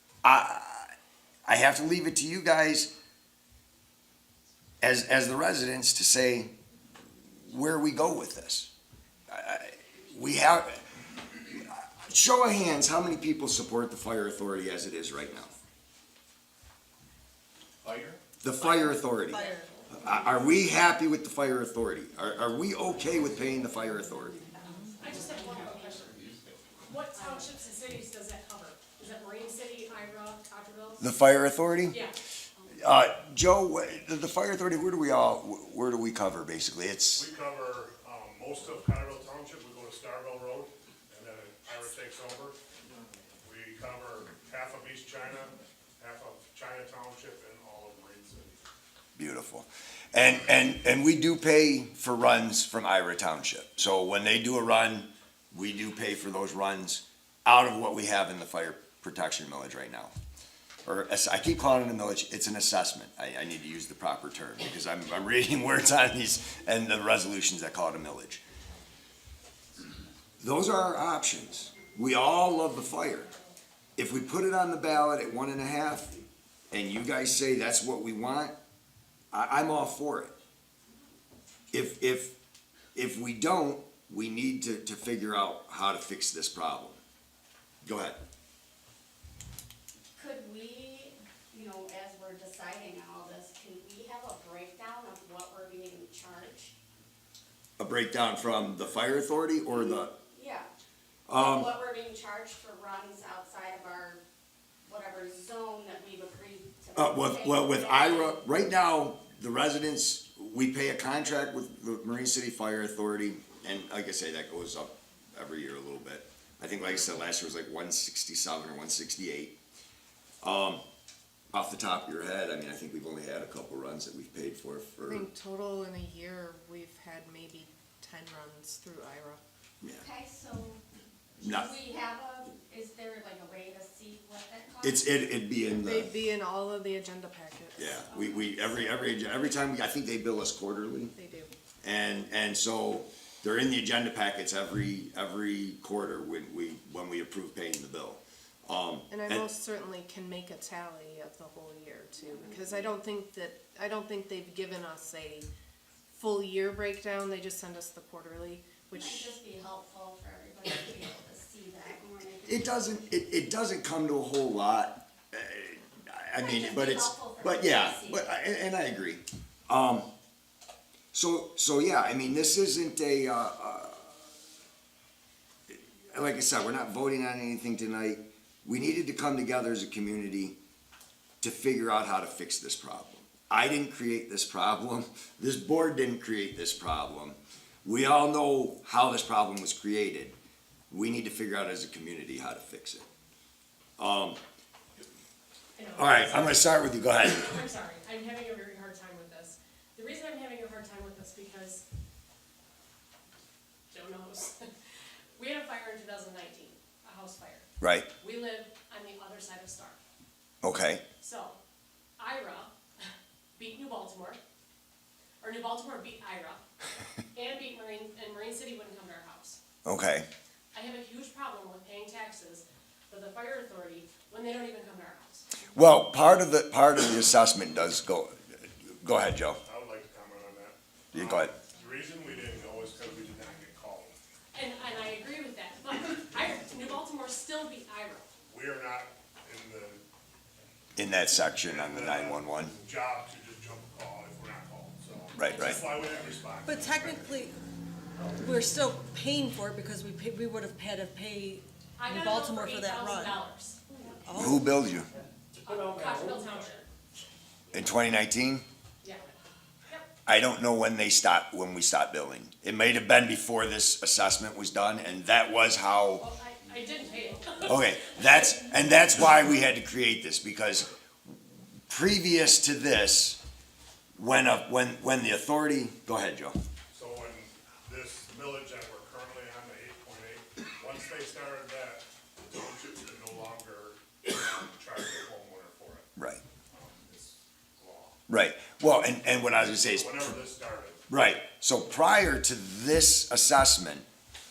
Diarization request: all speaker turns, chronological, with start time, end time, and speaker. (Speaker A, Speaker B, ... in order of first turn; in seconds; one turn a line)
Speaker A: 0.2-0.9
Speaker A: 1.5-2.9
Speaker A: 4.8-6.5
Speaker A: 7.5-8.7
Speaker A: 9.3-10.9
Speaker A: 11.5-15.5
Speaker A: 18.4-24.4
Speaker B: 18.7-19.8
Speaker C: 25.0-26.3
Speaker D: 25.5-25.9
Speaker C: 26.8-31.0
Speaker A: 31.0-32.0
Speaker C: 31.9-32.2
Speaker A: 32.8-37.2
Speaker E: 37.1-42.6
Speaker E: 43.4-48.7
Speaker A: 49.2-60.1
Speaker A: 60.9-68.4
Speaker A: 70.4-73.3
Speaker A: 74.0-76.2
Speaker A: 76.7-78.5
Speaker A: 79.3-80.3
Speaker A: 81.7-82.3
Speaker A: 83.0-87.0
Speaker A: 87.8-88.2
Speaker D: 90.2-96.7
Speaker A: 97.8-100.1
Speaker D: 99.7-100.7
Speaker A: 101.3-101.7
Speaker D: 101.3-104.2
Speaker D: 104.8-108.4
Speaker A: 107.0-119.6
Speaker A: 120.4-120.8
Speaker A: 121.5-125.3
Speaker F: 125.1-129.4
Speaker D: 129.9-130.8
Speaker D: 131.4-135.1
Speaker A: 131.4-131.8
Speaker A: 134.8-136.1
Speaker F: 135.8-138.1
Speaker A: 137.8-141.1
Speaker F: 141.2-141.5
Speaker A: 141.8-149.4
Speaker F: 149.1-155.5
Speaker D: 152.3-152.5
Speaker F: 156.1-159.4
Speaker D: 158.9-162.8
Speaker A: 162.4-170.1
Speaker D: 166.4-168.3
Speaker A: 171.1-174.2
Speaker A: 175.7-180.6
Speaker A: 181.4-190.3
Speaker A: 190.9-193.1
Speaker A: 194.0-194.4
Speaker C: 195.8-196.6
Speaker A: 195.9-197.6
Speaker C: 197.2-201.8
Speaker C: 203.9-204.7
Speaker C: 205.4-210.0
Speaker A: 207.8-208.1
Speaker A: 210.6-211.0
Speaker C: 211.2-211.6
Speaker C: 212.2-212.7
Speaker C: 213.6-214.4
Speaker C: 215.4-216.6
Speaker C: 217.3-219.6
Speaker A: 219.8-220.3
Speaker C: 220.7-225.5
Speaker A: 225.7-229.6
Speaker E: 229.7-234.1
Speaker A: 231.1-231.5
Speaker C: 234.5-238.3
Speaker E: 238.5-240.0
Speaker A: 241.0-242.7
Speaker E: 241.6-247.3
Speaker A: 245.4-245.9
Speaker C: 245.5-245.8
Speaker B: 246.7-247.6
Speaker B: 248.4-253.4
Speaker C: 252.0-253.8
Speaker B: 254.2-255.1
Speaker A: 254.3-255.1
Speaker C: 255.6-256.9
Speaker A: 257.7-258.6
Speaker C: 259.0-259.3
Speaker A: 260.2-266.2
Speaker C: 266.2-268.4
Speaker A: 267.6-270.9
Speaker A: 271.9-273.4
Speaker A: 274.2-276.6
Speaker E: 276.9-286.1
Speaker E: 286.7-288.2
Speaker A: 288.3-290.3
Speaker E: 289.8-291.1
Speaker A: 291.1-294.1